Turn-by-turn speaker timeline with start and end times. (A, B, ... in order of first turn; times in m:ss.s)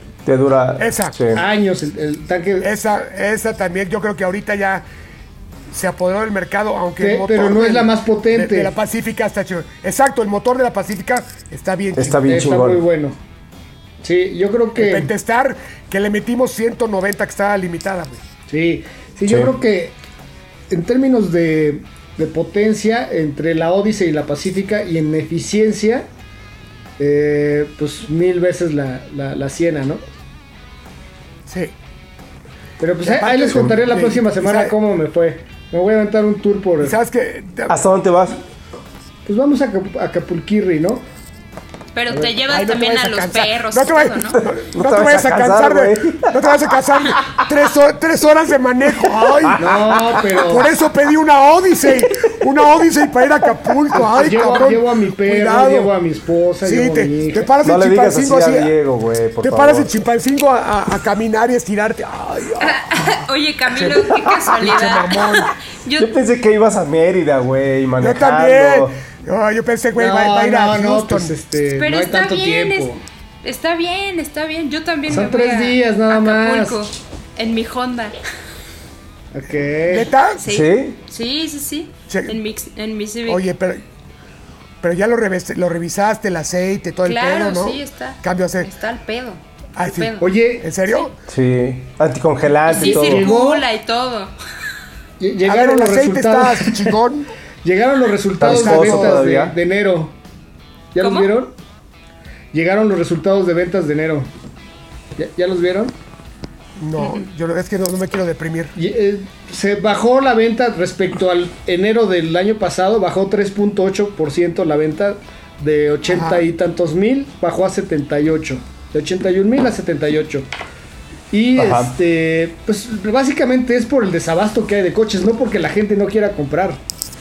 0:00.3-0:01.4 A
0:00.8-0:01.2 B
0:01.3-0:02.7 C
0:02.6-0:04.9 B
0:05.7-0:12.3 B
0:07.0-0:08.7 C
0:12.0-0:12.8 A
0:12.3-0:13.2 C
0:14.0-0:15.1 C
0:14.8-0:18.2 B
0:18.5-0:20.0 C
0:20.7-0:26.1 C
0:27.0-0:30.0 C
0:31.5-0:31.7 B
0:32.8-0:37.0 C
0:33.0-0:34.8 B
0:36.8-0:37.8 B
0:37.7-0:38.4 A
0:39.3-0:41.0 C
0:41.9-0:44.4 D
0:42.4-0:49.7 B
0:44.4-0:46.6 A
0:49.3-0:50.2 A
0:49.6-0:50.7 C
0:50.4-0:55.9 B
0:53.9-0:57.5 C
0:56.6-0:58.7 B
0:57.6-0:59.9 A
0:59.4-1:03.1 B
1:02.6-1:06.1 D
1:03.7-1:05.5 B
1:06.0-1:09.0 A
1:08.0-1:11.3 B
1:10.0-1:13.0 C
1:11.8-1:12.9 D
1:13.4-1:18.2 D
1:15.1-1:16.8 C
1:19.3-1:20.1 C
1:19.9-1:20.5 B
1:20.4-1:23.4 D
1:20.5-1:21.0 A
1:22.1-1:22.4 B
1:23.3-1:23.8 B
1:24.8-1:28.7 B
1:27.0-1:30.3 D
1:29.8-1:31.2 B
1:30.2-1:30.7 C
1:31.3-1:33.3 A
1:32.7-1:34.3 D
1:32.8-1:33.6 C
1:35.2-1:36.9 C
1:35.4-1:37.3 B
1:37.6-1:40.2 C
1:38.4-1:39.6 A
1:38.4-1:39.2 B
1:40.9-1:41.6 C
1:41.0-1:41.3 D
1:42.5-1:44.3 C
1:45.2-1:45.9 C
1:46.8-1:48.8 B
1:48.8-2:00.5 C
1:56.1-1:56.4 B
2:01.3-2:06.8 C
2:01.6-2:01.9 A